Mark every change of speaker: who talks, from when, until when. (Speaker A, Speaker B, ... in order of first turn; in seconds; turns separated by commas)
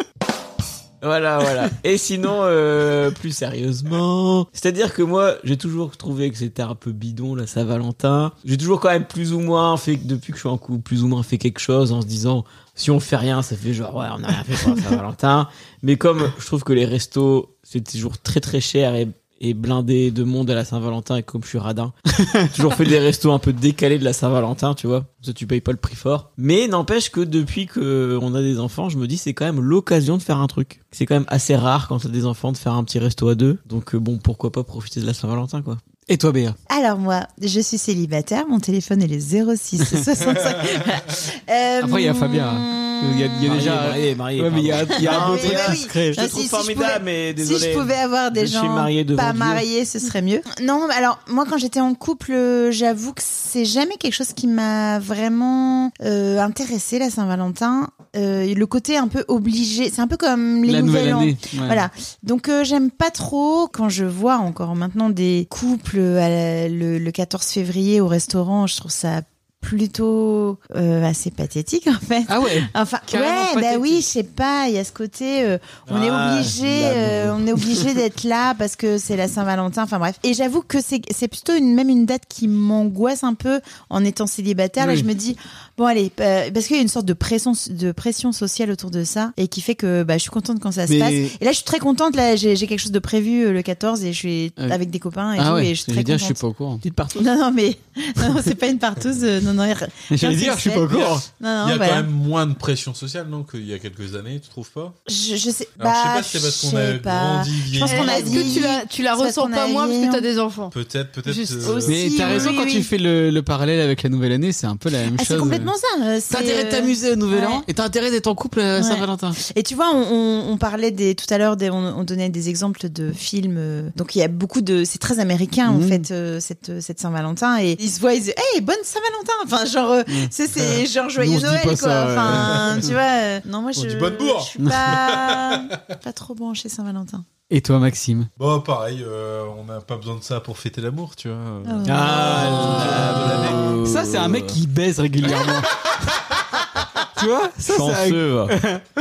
Speaker A: 1.0-22.0, Speaker A: 22.5-35.8, Speaker B: 36.1-36.5, Speaker C: 36.7-43.9, Speaker B: 41.8-46.2, Speaker A: 43.4-49.6, Speaker C: 45.0-96.4, Speaker B: 60.6-61.8, Speaker B: 72.3-74.0, Speaker A: 75.9-77.6, Speaker B: 84.8-85.1, Speaker B: 90.9-91.3, Speaker B: 95.3-96.8, Speaker A: 96.8-97.3, Speaker C: 97.2-102.1, Speaker B: 100.1-101.3, Speaker D: 101.6-105.0, Speaker C: 105.1-110.3, Speaker D: 105.8-108.7, Speaker E: 107.8-111.8, Speaker D: 110.7-112.6, Speaker C: 111.6-112.9, Speaker B: 111.8-115.7, Speaker C: 115.1-117.7, Speaker B: 116.3-119.4, Speaker C: 118.8-137.2, Speaker B: 125.7-126.0, Speaker B: 130.1-132.9, Speaker D: 132.3-132.7, Speaker D: 133.8-135.8, Speaker B: 134.6-134.8, Speaker B: 137.5-138.3, Speaker D: 138.4-143.7, Speaker C: 141.6-143.0, Speaker A: 141.8-144.6, Speaker B: 142.1-145.8, Speaker B: 147.2-148.8, Speaker A: 147.7-148.5